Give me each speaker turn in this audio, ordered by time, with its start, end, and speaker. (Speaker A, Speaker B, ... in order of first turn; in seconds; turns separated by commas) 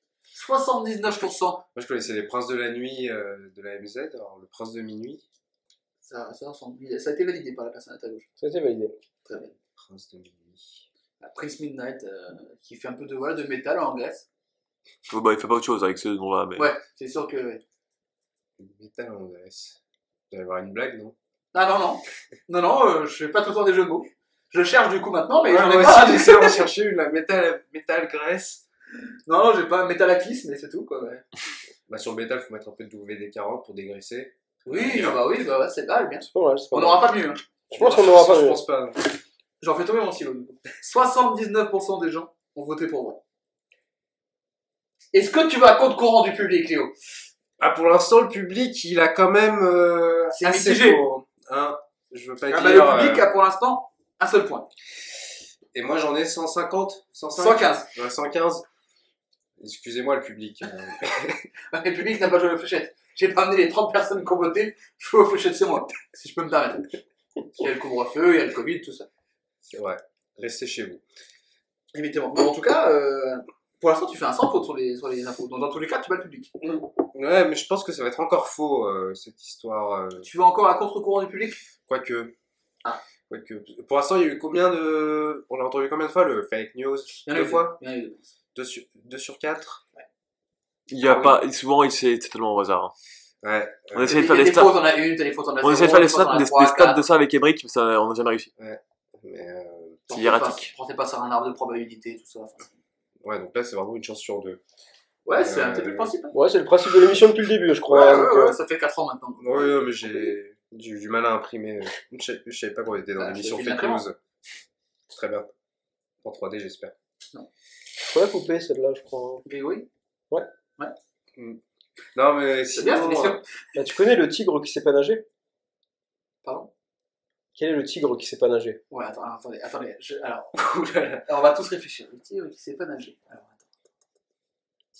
Speaker A: 0.3-1.6, Speaker B: 1.7-5.2, Speaker A: 6.0-8.3, Speaker C: 8.4-8.9, Speaker A: 9.2-9.5, Speaker B: 9.8-10.8, Speaker A: 11.2-14.2, Speaker D: 15.1-16.7, Speaker A: 16.6-17.6, Speaker B: 18.6-19.8, Speaker B: 20.3-21.1, Speaker A: 21.5-26.7, Speaker B: 25.4-28.6, Speaker A: 29.2-31.2, Speaker B: 31.9-35.2, Speaker A: 34.7-37.5, Speaker C: 36.3-37.1, Speaker C: 37.7-38.6, Speaker B: 37.7-39.0, Speaker A: 39.6-43.2, Speaker A: 45.1-46.9, Speaker B: 47.6-53.3, Speaker A: 50.3-51.0, Speaker A: 52.5-54.7, Speaker B: 55.7-58.6, Speaker A: 57.4-57.9, Speaker B: 59.6-61.4, Speaker A: 61.7-67.0, Speaker A: 67.5-69.1, Speaker B: 69.6-71.0, Speaker A: 71.9-76.5, Speaker B: 77.1-80.3, Speaker A: 80.2-81.6, Speaker B: 81.8-82.3, Speaker B: 83.3-87.8, Speaker A: 87.2-88.3, Speaker B: 88.5-89.8, Speaker D: 90.9-92.9, Speaker A: 91.0-91.4, Speaker B: 93.4-94.2, Speaker D: 93.9-94.7, Speaker A: 94.0-97.0, Speaker D: 95.6-98.5, Speaker B: 98.6-100.0, Speaker A: 100.1-102.8, Speaker D: 100.1-100.7, Speaker B: 103.2-104.6, Speaker A: 105.2-106.3, Speaker B: 105.3-106.1, Speaker C: 106.3-108.6, Speaker A: 107.9-109.7, Speaker B: 109.4-114.2, Speaker A: 113.2-114.0, Speaker B: 115.1-115.5, Speaker B: 116.2-116.9, Speaker C: 118.1-119.4, Speaker A: 119.4-119.9, Speaker B: 122.1-123.4, Speaker A: 122.7-123.4, Speaker C: 123.7-125.2, Speaker A: 126.4-126.7, Speaker C: 127.5-128.8, Speaker A: 128.9-130.5, Speaker B: 130.5-131.2, Speaker A: 131.3-133.7